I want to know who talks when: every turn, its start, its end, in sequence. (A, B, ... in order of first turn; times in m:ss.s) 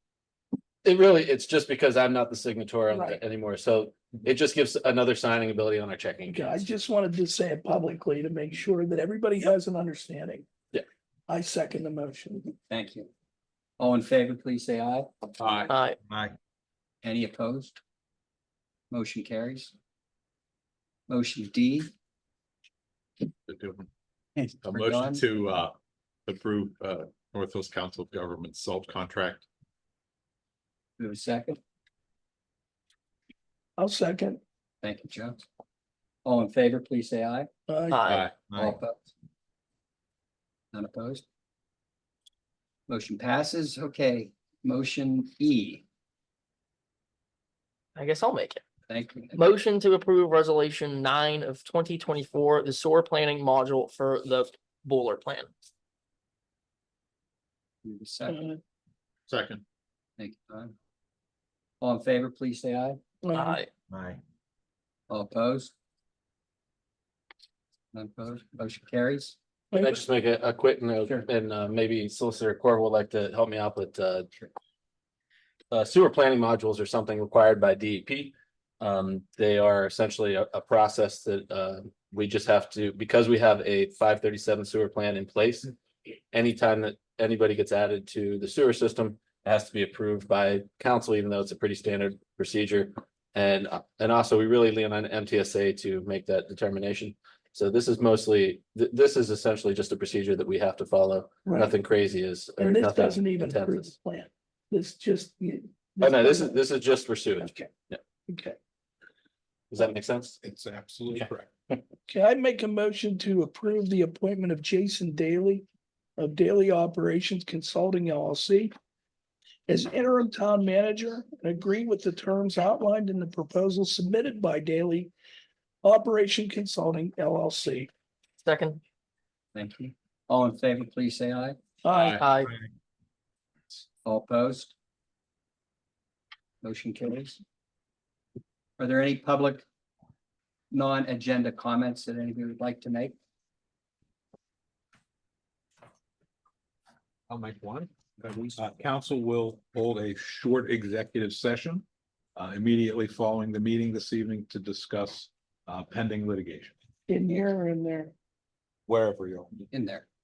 0:00.8-0:06.6 A
0:02.9-0:03.2 B
0:06.3-0:10.4 B
0:11.3-0:12.6 B
0:12.7-0:13.1 C
0:13.8-0:15.1 C
0:15.4-0:15.7 D
0:15.7-0:16.0 E
0:17.0-0:17.8 C
0:18.9-0:19.7 C
0:21.1-0:21.9 C
0:23.5-0:23.9 D
0:24.4-0:25.2 C
0:24.6-0:29.4 D
0:31.0-0:31.6 C
0:33.8-0:34.4 B
0:34.8-0:35.4 C
0:36.2-0:37.5 C
0:37.7-0:38.0 B
0:37.9-0:38.3 E
0:38.1-0:38.4 D
0:38.5-0:39.1 C
0:40.7-0:41.2 C
0:42.9-0:45.8 C
0:48.0-0:48.6 E
0:48.9-0:49.4 C
0:49.3-0:55.5 E
0:57.8-0:58.4 C
0:58.3-0:58.6 B
0:59.3-0:59.6 D
1:00.2-1:00.7 C
1:01.8-1:03.0 C
1:03.2-1:03.6 B
1:03.3-1:03.7 E
1:05.1-1:05.7 C
1:07.9-1:09.4 C
1:09.7-1:10.0 B
1:09.8-1:14.3 A
1:15.7-1:25.7 A
1:26.3-1:43.9 A
1:41.4-1:41.7 B
1:42.6-1:46.6 B
1:46.0-1:48.0 A
1:47.4-1:47.7 B
1:48.3-1:48.6 B
1:49.7-1:50.4 A
1:50.4-1:51.5 F
1:52.1-1:55.6 B
1:56.2-1:58.7 B
1:59.7-2:05.1 B
2:05.8-2:07.9 B
2:08.4-2:08.8 E
2:09.5-2:11.6 C
2:11.8-2:12.2 B
2:12.2-2:12.5 E
2:14.0-2:14.7 C
2:16.6-2:17.4 C
2:18.8-2:19.6 C
2:20.7-2:23.2 C
2:27.3-2:31.8 F
2:28.2-2:28.5 C
2:32.4-2:36.7 F
2:37.1-2:38.1 B
2:38.9-2:39.6 F
2:39.7-2:40.0 C